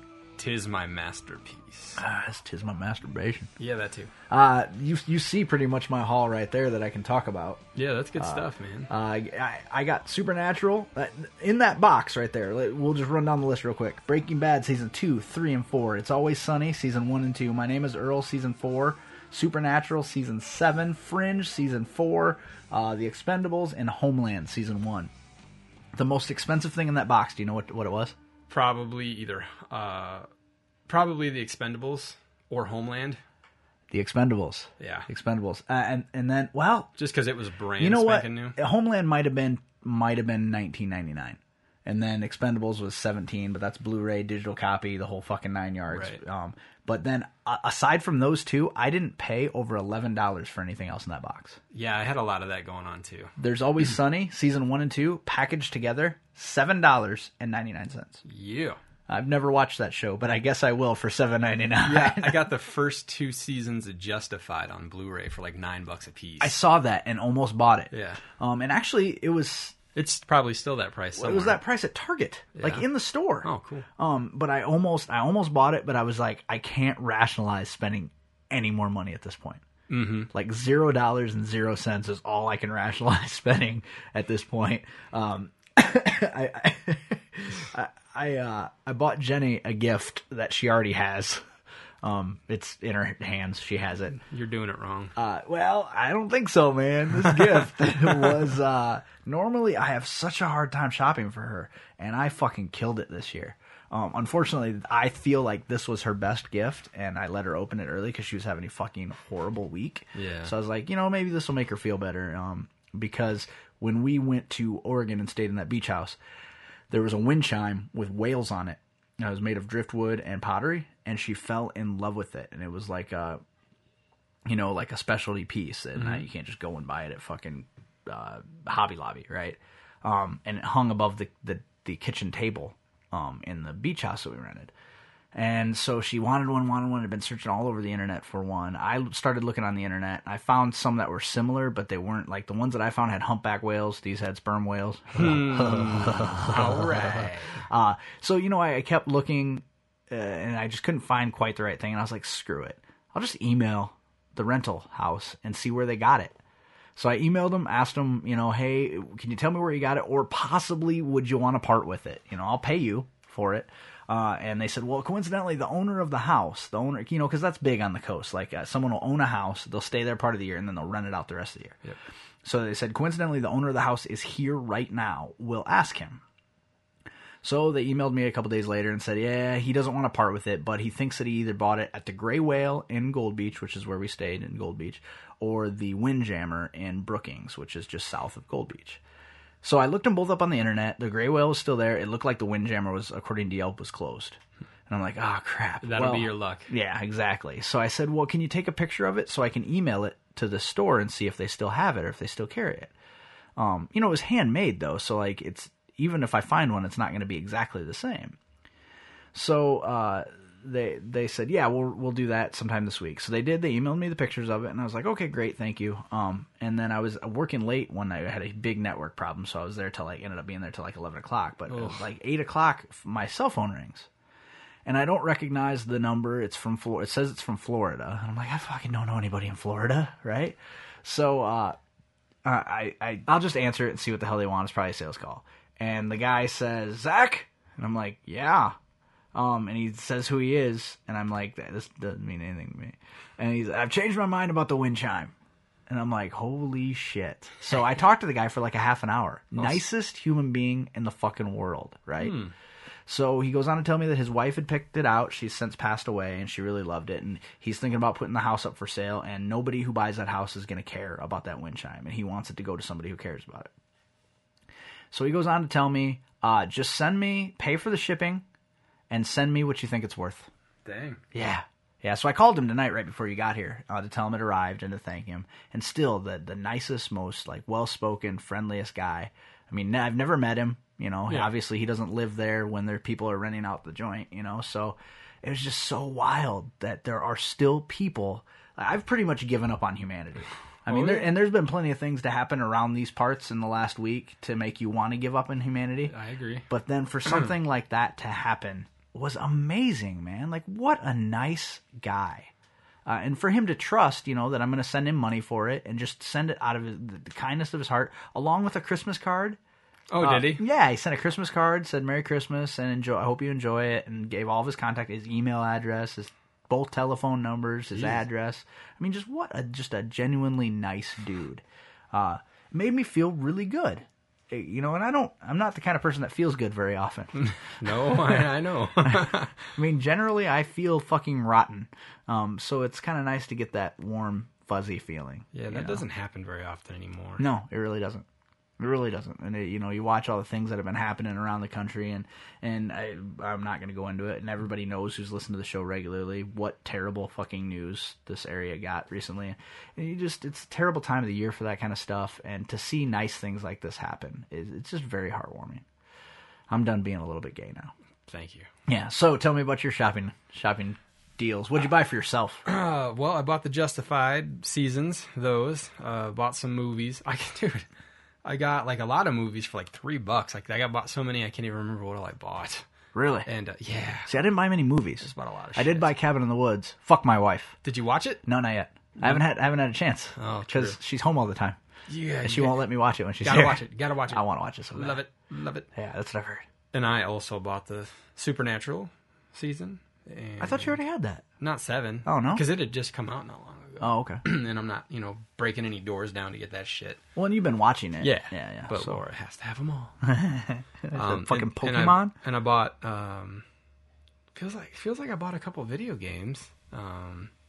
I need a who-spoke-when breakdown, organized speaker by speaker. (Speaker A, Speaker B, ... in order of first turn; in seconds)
Speaker A: 0.4-2.0, 3.6-4.1, 7.7-8.9, 28.5-30.3, 30.9-33.2, 34.8-35.1, 37.0-38.6, 45.9-46.2, 51.7-53.3, 58.2-58.8, 61.8-66.6, 67.9-68.2, 69.9-71.6, 72.5-72.8, 73.4-73.8, 79.9-80.3, 94.2-95.1, 97.3-98.3, 110.1-110.5, 126.0-126.2, 145.1-147.6, 195.8-196.7, 221.7-222.1, 249.6-249.8, 252.2-252.5, 270.8-271.2, 281.3-281.5, 290.9-291.4, 296.1-296.7, 297.3-297.5, 310.1-310.6, 327.3-329.5, 335.5-337.4, 358.3-358.7, 362.6-367.9, 368.4-372.9, 373.4-374.3, 375.2-376.1, 377.8-378.4, 379.2-379.4, 380.4-381.0, 382.1-385.9, 386.9-391.0, 391.6-397.2, 398.2-400.1, 401.1-403.6, 404.5-407.5
Speaker B: 2.0-3.5, 4.3-7.6, 8.2-25.1, 25.9-28.1, 33.9-36.9, 37.8-51.6, 53.4-58.2, 59.1-62.4, 66.4-69.8, 71.1-79.6, 80.3-91.4, 92.0-94.2, 95.2-116.2, 116.9-123.4, 124.5-134.7, 135.3-156.4, 156.9-171.8, 172.4-176.2, 177.4-189.0, 189.6-194.4, 194.9-202.9, 203.6-208.4, 209.3-224.1, 224.8-231.8, 232.4-238.7, 239.3-245.3, 245.9-252.4, 253.1-263.7, 265.1-268.4, 269.1-270.5, 271.3-296.1, 296.7-302.5, 303.1-309.6, 310.2-327.3, 327.9-328.4, 329.0-336.0, 337.4-338.2, 338.8-355.8, 356.7-357.9, 358.9-362.6, 373.1-373.5, 374.3-377.8, 378.4-381.8, 382.4-385.2, 385.9-386.6, 390.6-391.4, 392.2-392.6, 394.0-394.4, 397.4-399.2, 400.2-402.3